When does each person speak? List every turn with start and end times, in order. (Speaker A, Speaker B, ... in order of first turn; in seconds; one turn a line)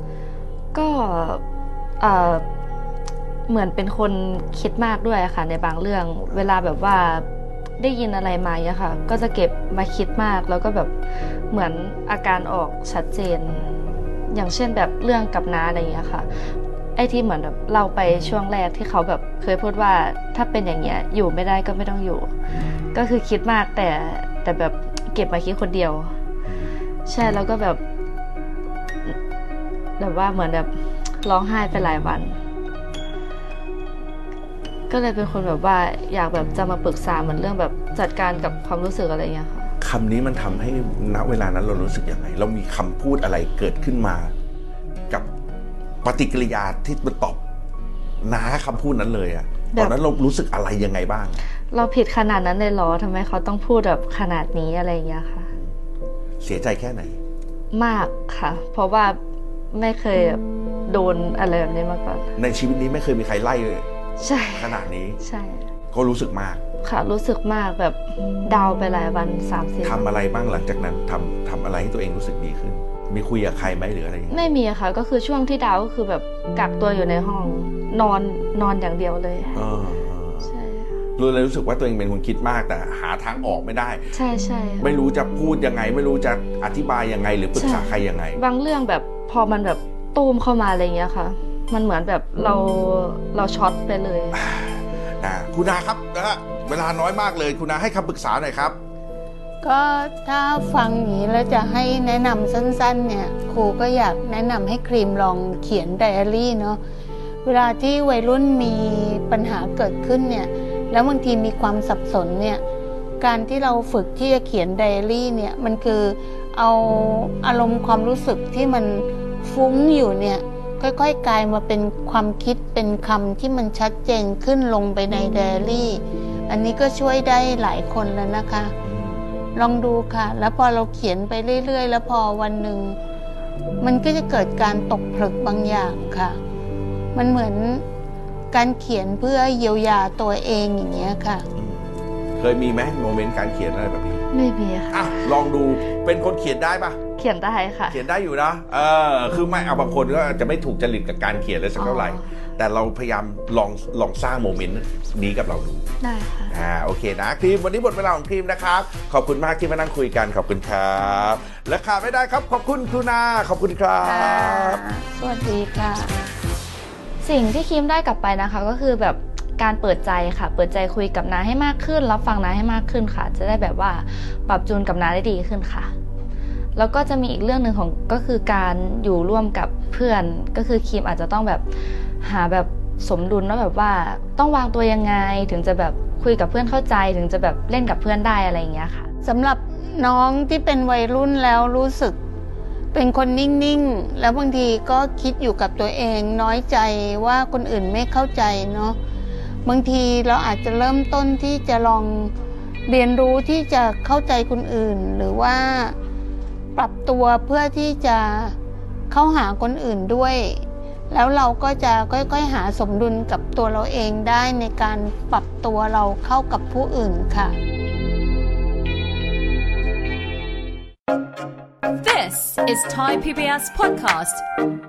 Speaker A: 0.7-1.4
Speaker A: 2.0-2.4
Speaker A: 3.5-7.2
Speaker A: 7.8-10.9
Speaker A: 11.5-13.7
Speaker A: 14.3-16.3
Speaker A: 16.9-22.3
Speaker A: 22.9-26.1
Speaker B: 26.5-26.7
Speaker A: 27.1-27.8
Speaker A: 30.0-30.7
Speaker A: 31.2-32.4
Speaker A: 34.9-39.7
Speaker B: 39.8-44.3
Speaker B: 46.0-47.4
Speaker B: 48.2-51.4
Speaker A: 51.7-55.5
Speaker B: 56.4-57.2
Speaker A: 57.7-59.2
Speaker A: 59.7-62.3
Speaker B: 62.4-63.9
Speaker A: 64.2-65.6
Speaker B: 64.5-65.2
Speaker B: 65.9-66.6
Speaker A: 66.8-70.0
Speaker B: 69.8-74.4
Speaker A: 74.3-79.6
Speaker B: 79.5-80.5
Speaker A: 80.4-80.9
Speaker B: 81.2-84.1
Speaker A: 84.1-84.9
Speaker B: 84.8-88.4
Speaker A: 87.5-94.4
Speaker B: 94.3-98.8
Speaker C: 99.6-106.8
Speaker C: 107.4-112.6
Speaker C: 113.2-128.7
Speaker B: 128.8-129.2
Speaker C: 129.5-133.0
Speaker C: 133.8-136.4
Speaker C: 137.1-137.8
Speaker C: 138.5-141.4
Speaker B: 141.6-144.2
Speaker A: 144.3-145.4
Speaker B: 144.9-147.0
Speaker A: 147.1-148.0
Speaker B: 147.9-155.9
Speaker A: 151.8-152.2
Speaker A: 156.0-156.5
Speaker B: 156.5-164.8
Speaker C: 164.0-166.1
Speaker A: 167.2-175.9
Speaker A: 176.8-181.6
Speaker A: 182.2-189.1
Speaker C: 189.2-192.2
Speaker C: 192.9-199.0
Speaker C: 199.6-202.3
Speaker C: 202.9-205.9
Speaker C: 206.8-208.6
Speaker C: 209.1-217.5
Speaker D: 222.0-224.4